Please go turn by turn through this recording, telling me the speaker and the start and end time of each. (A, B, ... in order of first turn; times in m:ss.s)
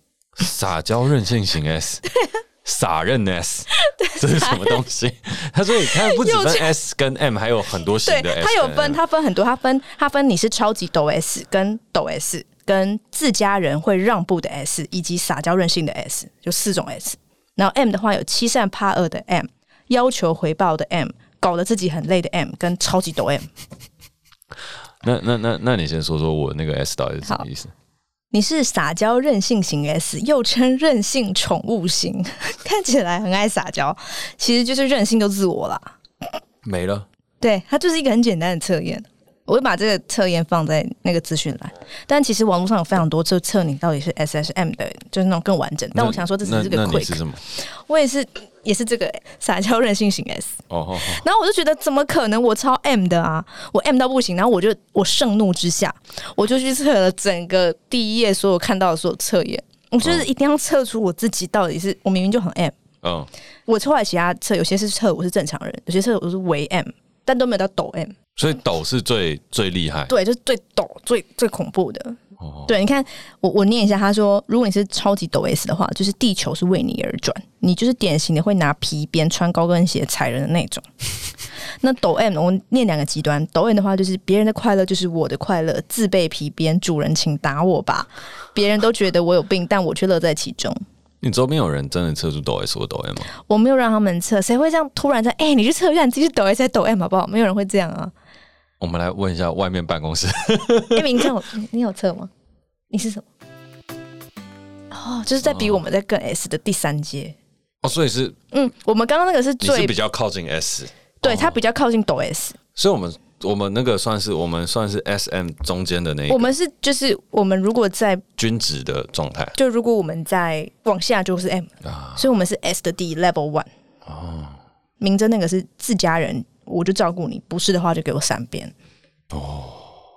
0:00.4-0:02.0 A
0:02.6-0:09.0 A
0:03.8-0:04.8 B
0:05.8-0:06.7 B
0:08.0-0:23.5 B
0:25.0-0:27.7 A
0:28.3-0:36.0 B
0:36.6-0:37.1 A
0:37.4-1:02.8 B
0:45.9-0:47.4 A
0:50.7-0:51.3 A
1:00.0-1:00.3 A
1:03.0-1:03.3 A
1:03.7-1:08.2 B
1:08.4-1:10.2 A
1:10.1-1:20.9 B
1:12.4-1:12.8 A
1:21.8-1:30.8 B
1:31.2-1:33.3 A
1:33.4-1:38.1 B
1:38.8-1:41.3 A
1:40.9-1:42.3 B
1:42.9-1:43.3 B
1:44.9-1:47.4 B
1:45.4-1:45.8 A
1:47.8-1:48.4 A
1:48.5-1:50.0 B
1:49.6-1:51.6 A
1:51.2-1:52.6 B
1:52.8-1:56.6 A
1:56.3-1:58.2 B
1:58.4-1:59.6 A
1:59.6-2:03.7 B
2:01.8-2:02.4 A
2:04.0-2:04.6 A
2:05.0-2:08.7 B
2:09.3-2:10.0 A